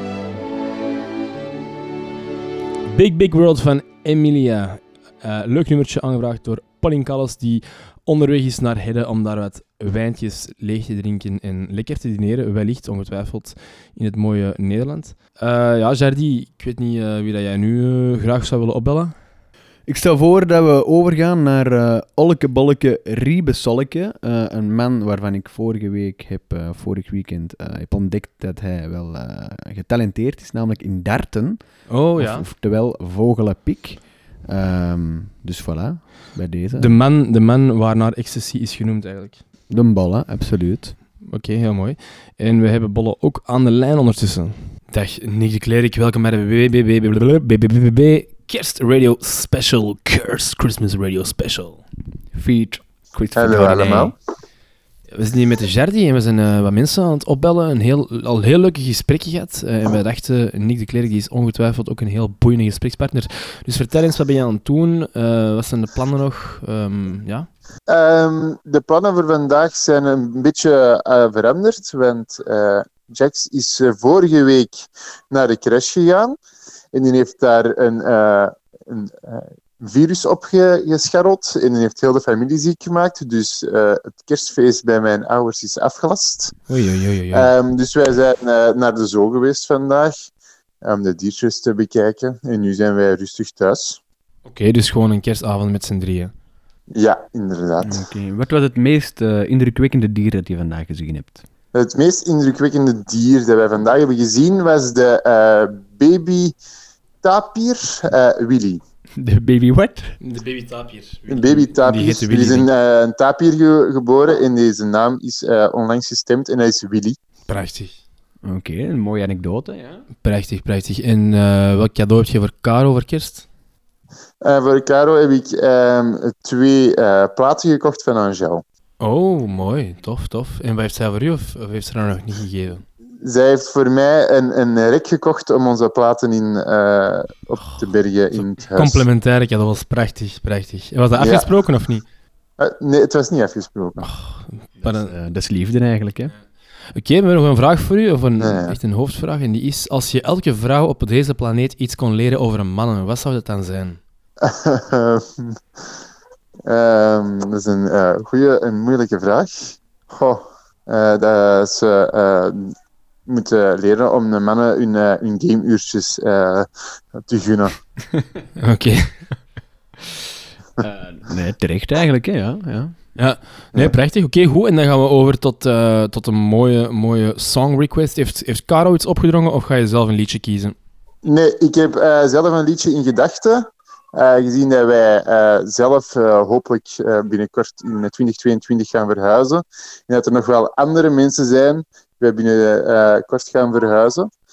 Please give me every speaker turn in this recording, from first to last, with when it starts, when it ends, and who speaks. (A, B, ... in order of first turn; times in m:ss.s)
0:02.9-0:19.2 A
0:19.9-0:37.0 B
0:31.9-0:32.5 A
0:36.8-0:39.4 A
0:39.7-0:41.0 B
0:41.2-0:51.8 A
0:52.3-0:54.1 B
0:53.3-0:54.1 C
0:55.1-1:07.5 A
1:07.9-1:16.4 C
1:16.9-1:26.7 C
1:26.7-1:27.5 A
1:27.3-1:30.3 C
1:30.8-1:34.0 C
1:34.4-1:36.3 A
1:36.9-1:38.0 C
1:37.8-1:41.4 B
1:41.7-1:46.5 C
1:47.2-1:48.8 C
1:49.2-1:50.2 B
1:50.2-1:52.7 A
1:51.3-1:57.2 C
1:57.4-1:58.0 A
1:58.4-2:00.0 B
2:00.2-2:03.5 A
2:04.4-2:08.6 C
2:09.0-2:12.8 A
2:13.2-2:19.0 C
2:17.6-2:22.0 A
2:21.2-2:21.5 C
2:22.6-2:24.1 C
2:24.0-2:25.1 A
2:24.8-2:26.3 B
2:26.9-2:34.0 A
2:28.4-2:28.8 C
2:34.4-2:35.8 C
2:36.7-2:42.7 C
2:43.3-2:47.8 C
2:48.6-2:49.2 A
2:50.8-2:53.1 B
2:53.2-3:00.8 A
3:01.2-3:14.3 C